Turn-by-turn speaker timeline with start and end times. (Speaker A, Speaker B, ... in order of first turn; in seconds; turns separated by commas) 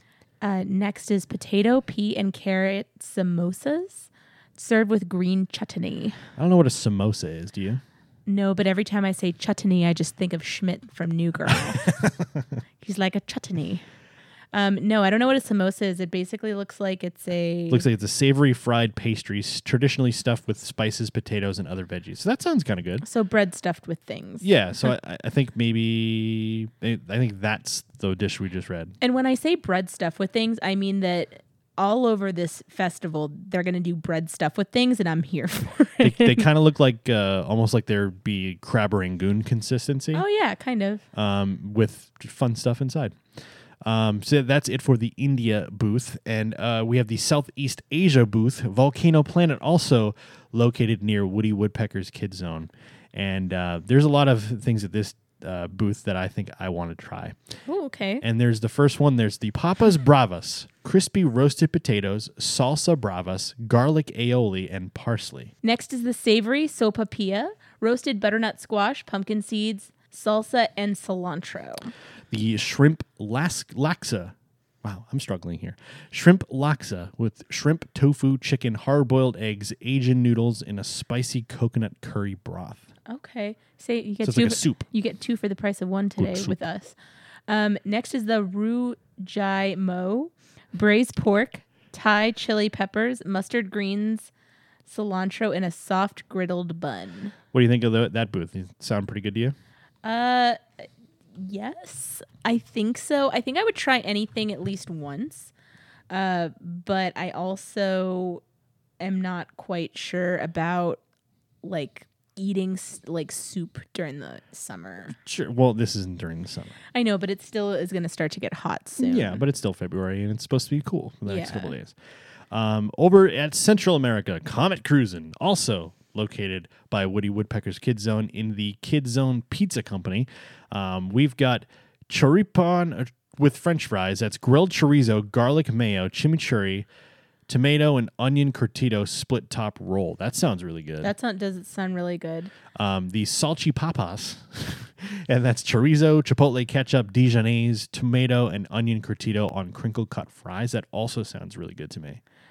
Speaker A: 0.4-6.2, Speaker B: 6.4-7.8, Speaker A: 8.3-12.1, Speaker B: 11.5-12.2, Speaker A: 12.8-13.8, Speaker A: 14.5-17.9, Speaker B: 17.7-23.0, Speaker A: 23.0-24.5, Speaker B: 24.4-29.0, Speaker A: 29.0-36.5, Speaker B: 36.0-40.2, Speaker A: 40.1-41.0, Speaker B: 41.1-43.2, Speaker B: 43.8-57.4, Speaker A: 57.7-58.2, Speaker B: 58.2-65.5, Speaker A: 65.6-71.9, Speaker B: 72.3-82.9, Speaker A: 83.1-87.0, Speaker B: 84.2-84.9, Speaker B: 86.2-86.6, Speaker A: 87.5-94.3, Speaker A: 94.9-97.3, Speaker B: 97.5-99.6, Speaker A: 100.0-100.6, Speaker A: 101.4-105.5, Speaker A: 106.1-108.4, Speaker A: 109.0-111.0, Speaker A: 111.6-115.1, Speaker B: 115.1-116.8, Speaker A: 116.9-119.4, Speaker B: 119.0-122.0, Speaker A: 121.3-121.7, Speaker B: 122.5-136.9, Speaker B: 137.5-141.1, Speaker A: 141.0-142.5, Speaker B: 142.7-152.2